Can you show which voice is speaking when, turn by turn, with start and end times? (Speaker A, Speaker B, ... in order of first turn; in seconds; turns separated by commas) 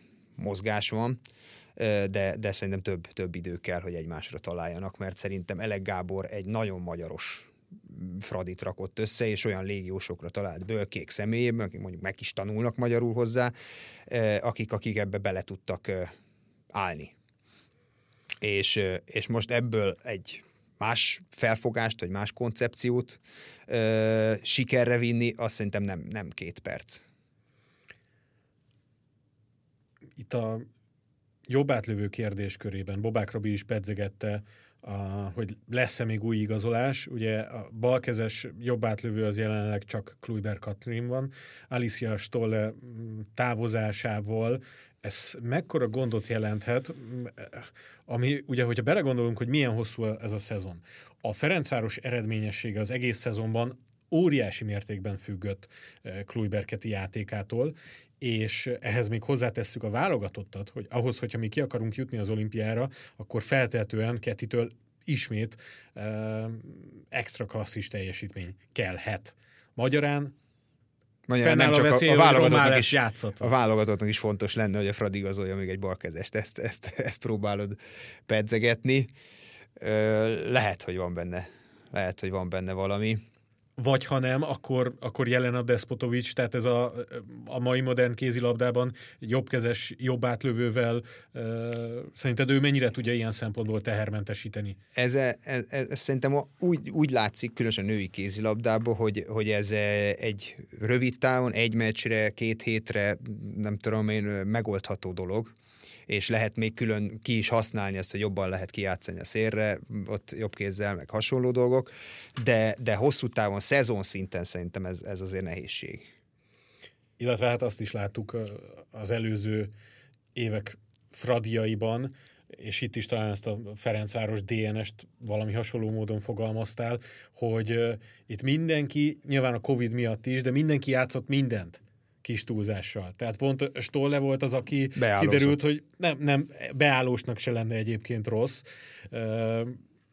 Speaker A: 0.4-1.2, Speaker A: 1.8-13.5, Speaker A: 14.1-16.1, Speaker A: 16.7-17.1, Speaker A: 18.4-27.0, Speaker B: 30.2-30.7, Speaker B: 31.5-70.3, Speaker A: 71.3-79.1, Speaker B: 71.4-73.5, Speaker A: 79.8-83.2, Speaker B: 83.8-94.8, Speaker A: 94.9-105.5, Speaker A: 106.1-116.0, Speaker B: 117.2-119.7, Speaker B: 120.3-139.8, Speaker A: 134.9-135.6